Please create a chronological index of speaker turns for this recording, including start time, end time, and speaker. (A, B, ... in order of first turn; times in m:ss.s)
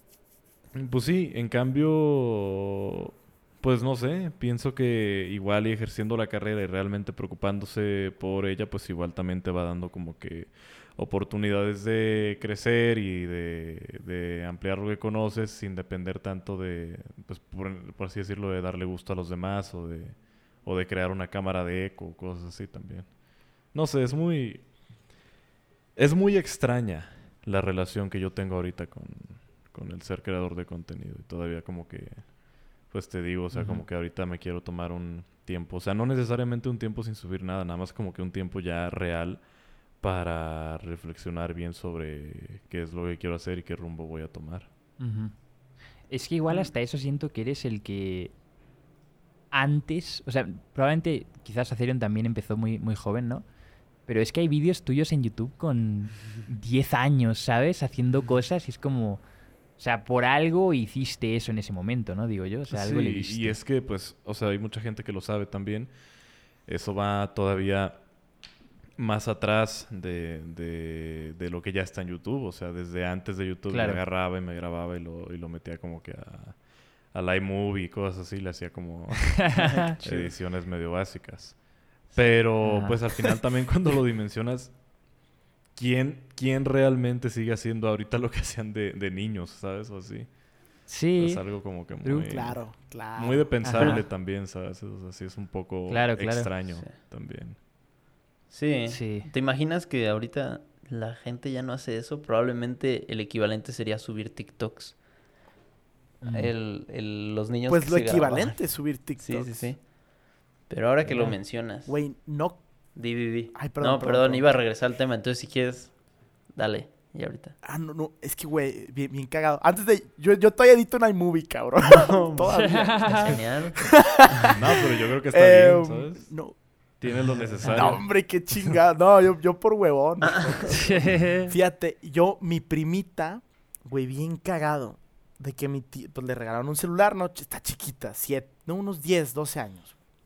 0:00.7-0:24.7 A
0:26.0-0:39.4 A
0:33.5-0:33.8 B
0:40.0-0:44.7 A
0:45.0-0:45.3 B
0:46.1-0:48.3 B
0:49.5-0:53.4 B
0:54.0-0:59.2 B
0:59.8-1:03.6 B
1:02.7-1:05.9 A
1:06.6-1:08.0 A
1:09.0-1:24.8 A
1:13.7-1:14.0 B
1:19.5-1:20.0 B
1:19.6-1:20.3 C
1:22.6-1:23.0 B
1:25.8-1:30.3 A
1:30.9-1:31.4 B
1:31.2-1:37.6 A
1:32.0-1:32.3 B
1:32.2-1:33.5 D
1:33.6-1:34.0 B
1:33.7-1:34.0 C
1:35.9-1:36.5 B
1:38.5-1:45.0 C
1:38.9-1:39.3 B
1:46.2-1:46.5 B
1:46.3-1:49.8 C
1:47.7-1:49.7 D
1:50.7-1:51.9 C
1:51.0-1:51.4 B
1:51.8-1:52.6 D
1:52.9-1:56.0 C
1:53.5-1:54.5 D
1:56.5-1:57.5 C
1:57.6-2:04.5 D
2:01.9-2:04.3 C
2:02.5-2:03.4 B
2:04.5-2:06.3 A
2:05.3-2:06.6 D
2:07.0-2:08.0 A
2:07.6-2:08.0 B
2:07.6-2:19.9 D
2:10.4-2:10.7 C
2:10.7-2:11.5 B